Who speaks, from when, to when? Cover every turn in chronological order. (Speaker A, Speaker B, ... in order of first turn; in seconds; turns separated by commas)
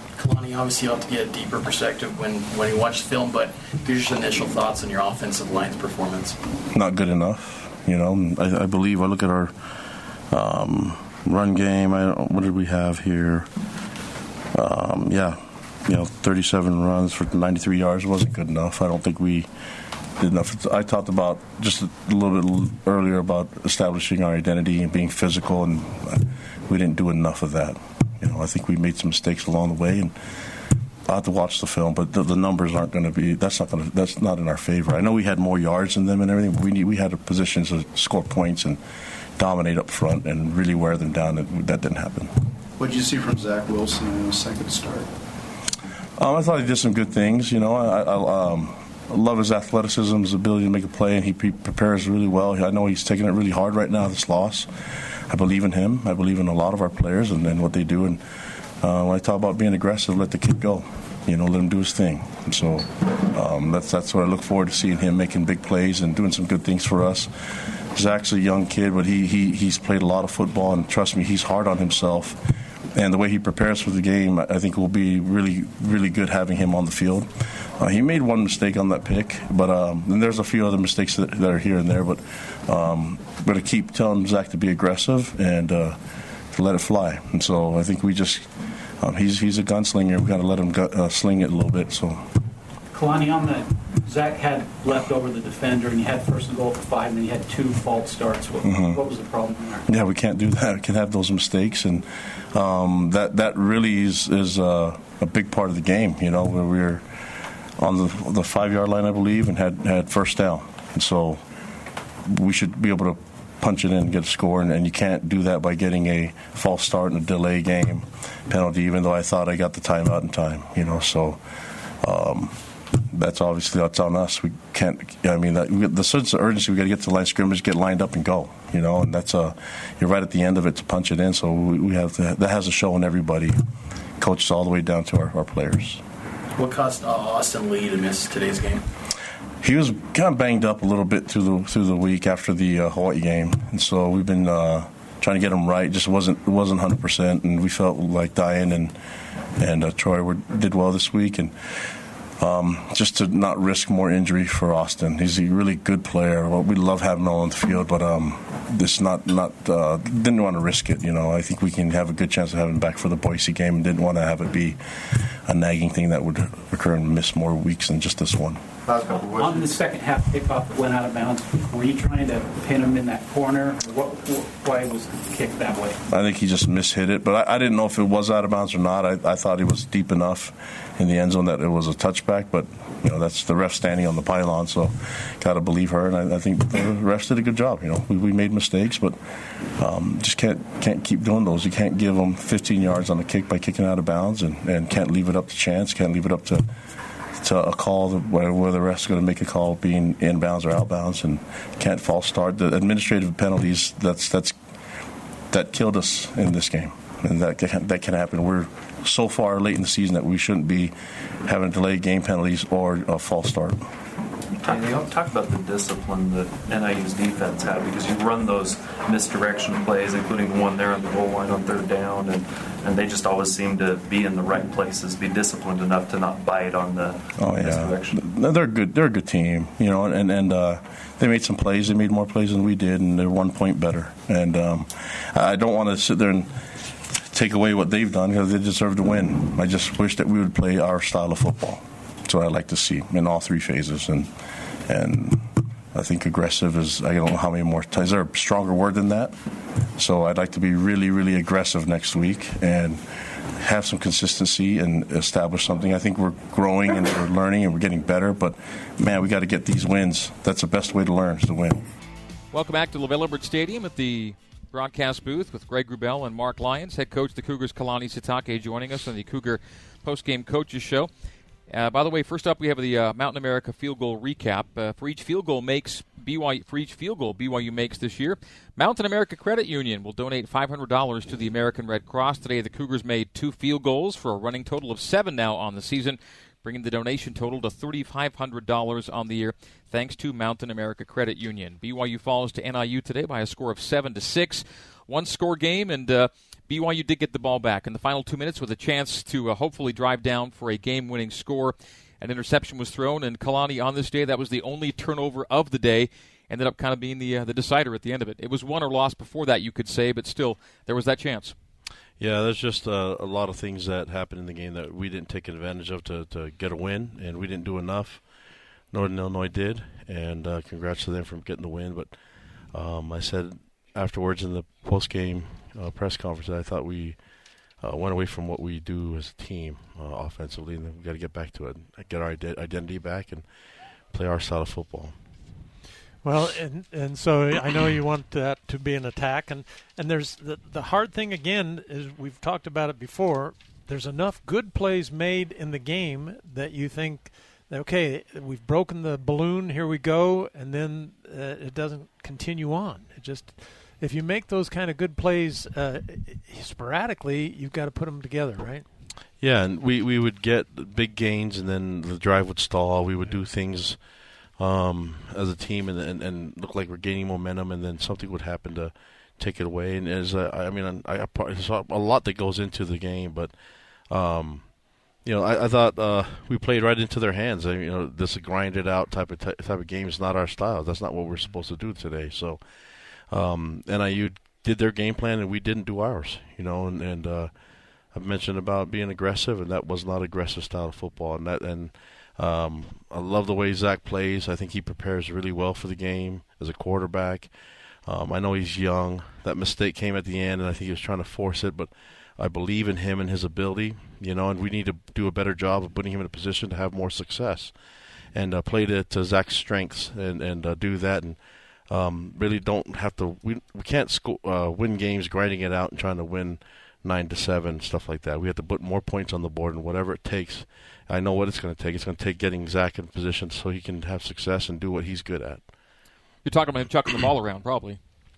Speaker A: 0.2-6.4, Speaker B: 6.7-9.6, Speaker B: 10.3-13.5, Speaker B: 14.5-19.5, Speaker B: 20.2-30.1, Speaker B: 31.1-38.8, Speaker B: 39.4-42.3, Speaker C: 42.8-45.1, Speaker B: 46.2-54.7, Speaker B: 55.3-58.2, Speaker B: 58.8-67.3, Speaker B: 67.9-86.0, Speaker B: 86.5-92.3, Speaker D: 92.9-99.9, Speaker B: 98.6-99.0, Speaker B: 99.9-107.2, Speaker B: 107.8-111.4, Speaker B: 112.2-121.4, Speaker B: 122.0-133.6, Speaker B: 134.2-136.0, Speaker A: 136.6-138.8, Speaker B: 139.6-149.0, Speaker B: 149.6-151.8, Speaker B: 152.4-168.6, Speaker C: 168.8-169.8, Speaker D: 169.0-176.0, Speaker B: 176.1-189.2, Speaker B: 189.8-196.7, Speaker B: 197.4-204.5, Speaker B: 205.5-213.9, Speaker E: 214.6-228.2, Speaker B: 227.4-244.3, Speaker B: 244.8-249.3, Speaker B: 250.0-261.9, Speaker F: 262.5-271.1, Speaker F: 271.7-311.6, Speaker G: 312.2-335.2, Speaker H: 336.2-358.9, Speaker G: 359.4-426.0, Speaker F: 426.4-428.0